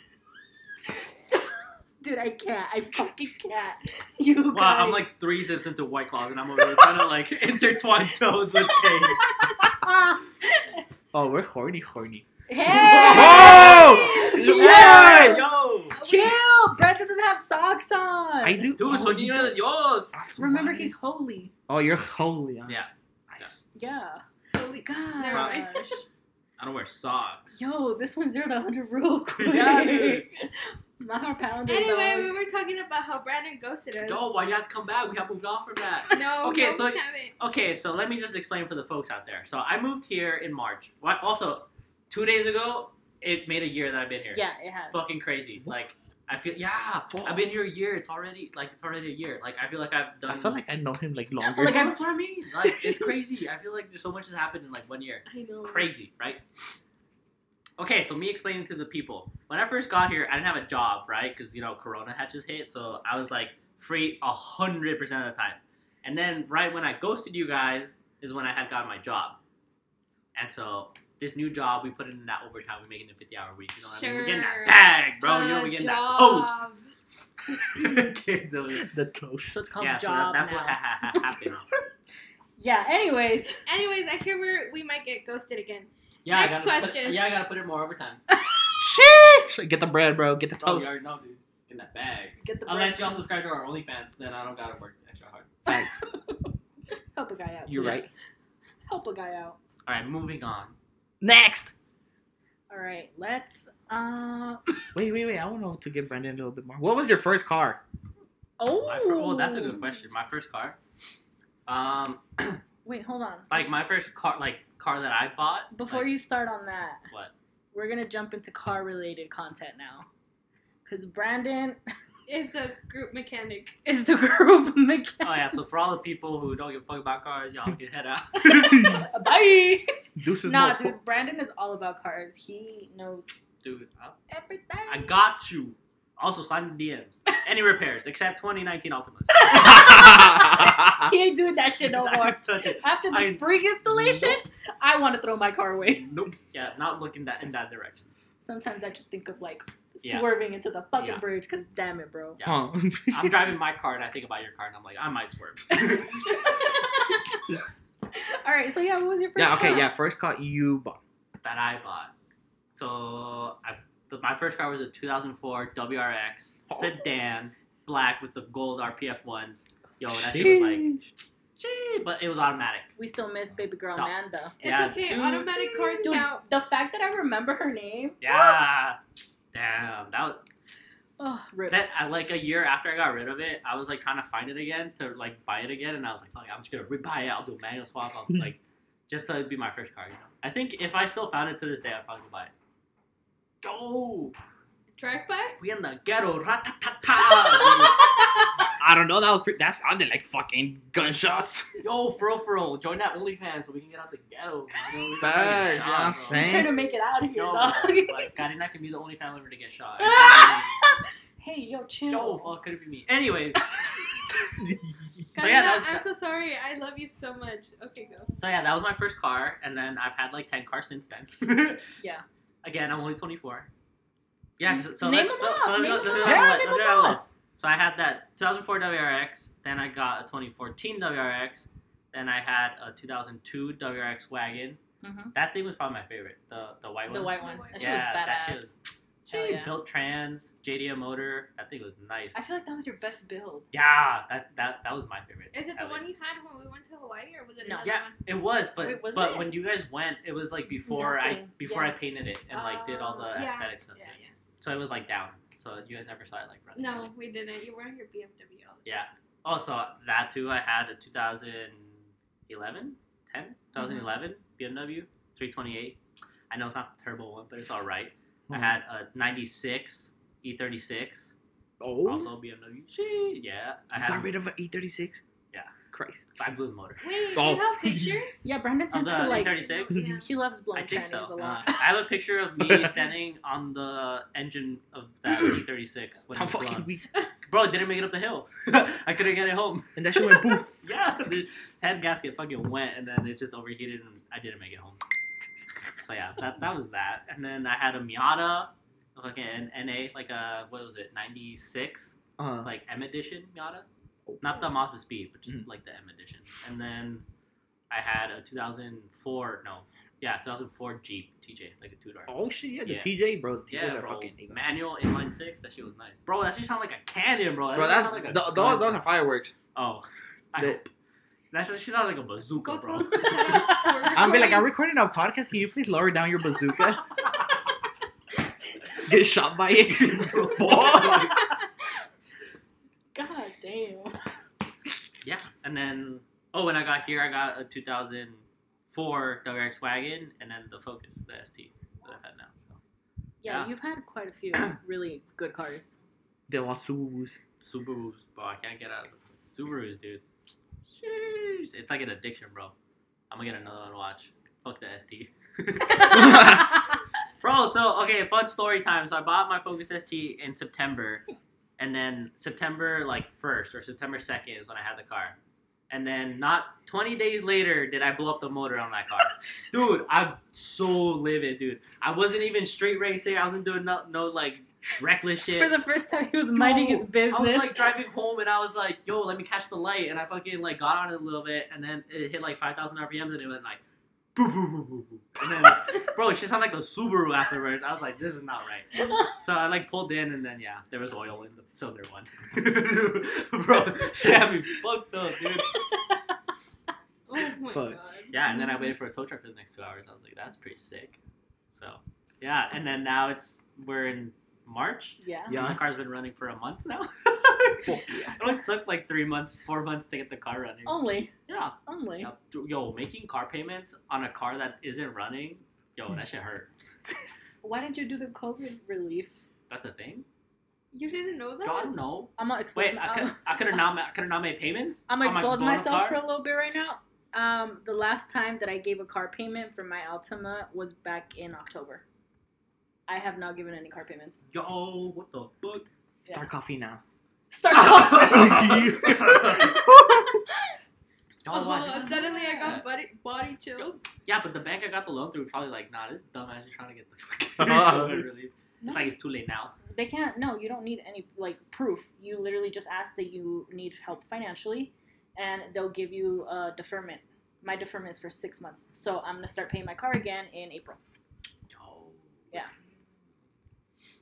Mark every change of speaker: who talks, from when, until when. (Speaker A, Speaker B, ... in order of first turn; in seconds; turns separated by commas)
Speaker A: 1.0-5.1, Speaker B: 4.5-9.3, Speaker A: 8.9-10.8, Speaker C: 11.1-12.3, Speaker A: 12.5-15.5, Speaker D: 12.6-14.4, Speaker B: 12.8-16.0, Speaker C: 12.9-15.4, Speaker D: 15.9-16.4, Speaker A: 16.0-18.7, Speaker C: 18.4-20.9, Speaker B: 18.8-20.2, Speaker A: 20.4-21.5, Speaker C: 21.7-23.6, Speaker B: 22.7-23.5, Speaker A: 23.7-24.2, Speaker D: 24.5-26.0, Speaker A: 24.8-26.1, Speaker B: 25.3-25.6, Speaker B: 26.6-27.6, Speaker A: 27.5-32.3, Speaker B: 29.4-30.3, Speaker D: 31.7-34.3, Speaker B: 34.0-50.6, Speaker D: 36.1-37.4, Speaker A: 44.3-45.1, Speaker C: 47.1-47.5, Speaker C: 50.3-51.9, Speaker A: 51.5-52.0, Speaker B: 51.6-56.4, Speaker C: 52.7-52.9, Speaker D: 55.3-55.9, Speaker B: 57.8-69.4, Speaker B: 70.3-76.6, Speaker D: 73.8-76.9, Speaker B: 77.6-78.9, Speaker C: 78.8-79.7, Speaker A: 79.5-80.8, Speaker B: 79.8-81.7, Speaker A: 82.6-83.6, Speaker D: 83.7-87.2, Speaker B: 86.2-88.2, Speaker A: 88.3-88.7, Speaker C: 88.8-90.9, Speaker B: 90.6-95.5, Speaker A: 92.4-93.2, Speaker A: 95.7-96.5, Speaker A: 97.1-98.1, Speaker C: 97.7-98.1, Speaker A: 98.9-99.6, Speaker B: 99.9-100.8, Speaker C: 101.2-101.7, Speaker A: 102.7-104.8, Speaker C: 104.9-107.8, Speaker A: 108.6-110.0, Speaker B: 108.7-110.8, Speaker B: 111.7-112.6, Speaker A: 112.8-113.7, Speaker B: 113.5-116.1, Speaker A: 115.7-117.0, Speaker A: 117.7-120.1, Speaker A: 120.8-121.8, Speaker D: 122.3-123.8, Speaker A: 123.8-125.6, Speaker B: 125.2-128.9, Speaker A: 128.4-129.9, Speaker C: 128.5-129.1, Speaker C: 130.2-131.0, Speaker A: 130.4-133.3, Speaker B: 133.6-134.2, Speaker A: 134.3-135.2, Speaker B: 134.9-139.7, Speaker A: 139.3-146.1, Speaker C: 139.5-141.1, Speaker B: 141.8-144.3, Speaker B: 145.8-148.1, Speaker A: 148.4-152.4, Speaker B: 150.0-150.3, Speaker B: 151.0-151.2, Speaker B: 152.4-156.3, Speaker C: 152.4-153.6, Speaker A: 155.7-157.5, Speaker A: 158.1-159.9, Speaker C: 159.4-161.0, Speaker B: 161.4-162.1, Speaker B: 162.7-170.9, Speaker C: 170.1-171.0, Speaker B: 171.6-172.9, Speaker A: 173.0-174.6, Speaker B: 174.0-176.0, Speaker D: 174.6-176.4, Speaker A: 175.9-178.6, Speaker B: 178.2-179.0, Speaker B: 179.5-180.5, Speaker A: 181.2-181.8, Speaker B: 181.7-192.5, Speaker B: 193.6-194.3, Speaker D: 195.0-195.6, Speaker B: 195.6-198.0, Speaker D: 197.1-198.4, Speaker C: 198.8-201.7, Speaker B: 201.8-206.7, Speaker C: 205.2-206.7, Speaker A: 206.3-208.3, Speaker B: 207.3-210.7, Speaker A: 210.0-212.5, Speaker B: 212.1-213.8, Speaker C: 214.6-214.9, Speaker B: 215.3-216.1, Speaker D: 215.3-218.3, Speaker B: 218.4-221.8, Speaker B: 222.6-223.7, Speaker B: 224.6-234.8, Speaker A: 224.7-226.6, Speaker C: 226.2-227.2, Speaker A: 235.0-235.3, Speaker B: 235.3-238.7, Speaker A: 237.1-238.7, Speaker D: 237.3-238.1, Speaker B: 239.3-242.4, Speaker A: 239.3-239.8, Speaker A: 242.3-243.7, Speaker B: 243.7-246.1, Speaker D: 245.5-248.2, Speaker A: 247.6-247.9, Speaker B: 247.8-257.1, Speaker A: 248.8-249.5, Speaker A: 250.8-252.0, Speaker D: 252.5-254.3, Speaker D: 256.8-259.0, Speaker B: 258.9-266.0, Speaker A: 263.8-264.1, Speaker B: 266.5-271.3, Speaker C: 268.5-268.8, Speaker C: 271.8-272.3, Speaker B: 272.0-274.3, Speaker C: 273.9-275.2, Speaker C: 275.9-276.2, Speaker B: 276.4-277.2, Speaker D: 277.0-278.4, Speaker C: 277.3-278.2, Speaker A: 278.4-281.9, Speaker B: 278.9-280.1, Speaker D: 279.1-280.3, Speaker B: 280.7-286.9, Speaker C: 281.4-281.8, Speaker C: 282.6-283.0, Speaker C: 286.3-287.0, Speaker B: 287.5-295.0, Speaker C: 290.0-290.7, Speaker B: 296.0-303.9, Speaker C: 302.4-302.7, Speaker B: 304.4-307.3, Speaker B: 307.9-312.3, Speaker C: 312.3-314.6, Speaker B: 312.8-313.1, Speaker B: 313.7-319.1, Speaker C: 317.7-319.5, Speaker B: 319.8-320.9, Speaker C: 320.6-320.8, Speaker B: 321.5-323.8, Speaker D: 322.6-324.7, Speaker A: 323.5-324.2, Speaker C: 324.1-327.0, Speaker C: 329.0-331.4, Speaker B: 330.0-331.4, Speaker A: 333.1-334.2, Speaker B: 335.2-342.8, Speaker A: 343.4-346.0, Speaker B: 343.4-343.7, Speaker C: 346.5-347.4, Speaker B: 347.6-350.2, Speaker B: 350.9-352.7, Speaker B: 353.3-356.6, Speaker A: 355.9-356.8, Speaker C: 356.1-356.7, Speaker B: 357.4-361.2, Speaker B: 361.8-365.4, Speaker B: 365.9-375.7, Speaker A: 375.4-377.8, Speaker B: 376.6-383.8, Speaker B: 384.4-395.7, Speaker A: 395.9-396.2, Speaker D: 397.3-398.4, Speaker C: 397.7-398.0, Speaker B: 398.3-401.2, Speaker A: 398.4-398.9, Speaker B: 401.7-416.7, Speaker A: 405.2-405.6, Speaker C: 405.5-405.8, Speaker C: 407.8-408.4, Speaker A: 410.9-411.3, Speaker A: 411.9-412.3, Speaker A: 417.6-419.4, Speaker B: 419.7-420.3, Speaker D: 420.9-422.0, Speaker B: 421.6-426.2, Speaker A: 422.4-423.9, Speaker A: 425.1-432.0, Speaker A: 433.1-434.4, Speaker B: 434.5-435.9, Speaker C: 436.3-437.0, Speaker A: 437.5-439.4, Speaker B: 437.8-439.8, Speaker C: 438.1-440.4, Speaker B: 441.4-442.9, Speaker D: 441.5-444.0, Speaker A: 441.9-442.8, Speaker B: 444.2-449.7, Speaker C: 447.6-448.2, Speaker A: 448.8-449.1, Speaker A: 449.9-461.0, Speaker B: 461.7-462.5